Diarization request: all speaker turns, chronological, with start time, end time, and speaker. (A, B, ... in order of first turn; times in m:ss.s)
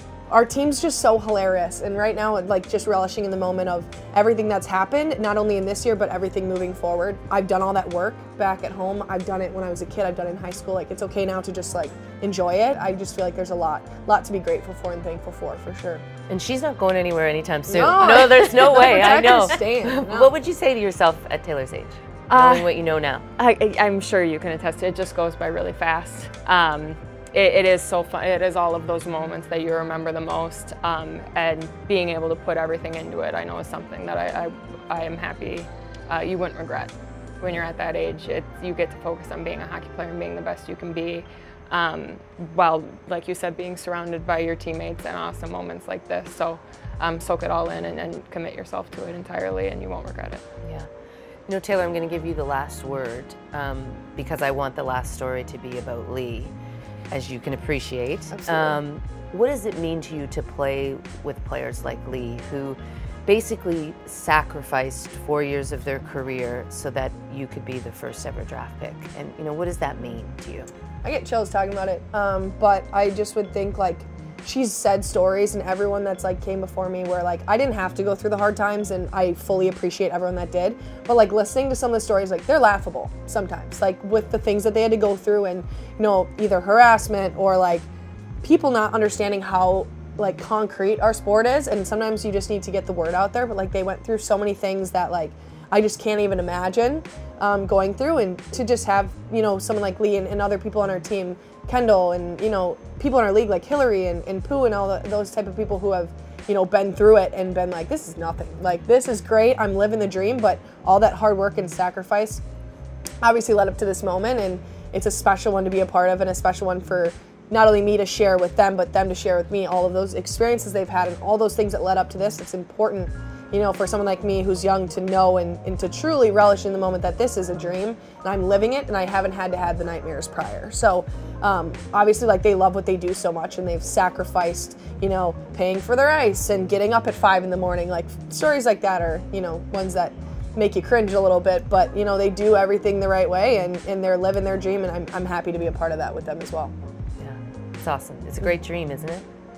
0:00.3-0:16.0 A
0:16.3-0:23.2 B
0:17.7-0:20.3 A
0:22.3-0:22.8 C
0:23.4-0:50.4 C
0:51.5-0:56.5 B
0:57.1-1:10.7 B
0:58.3-0:58.8 A
1:11.0-1:27.9 A
1:28.4-1:52.4 A
1:53.2-2:26.7 A
2:27.2-2:29.2 B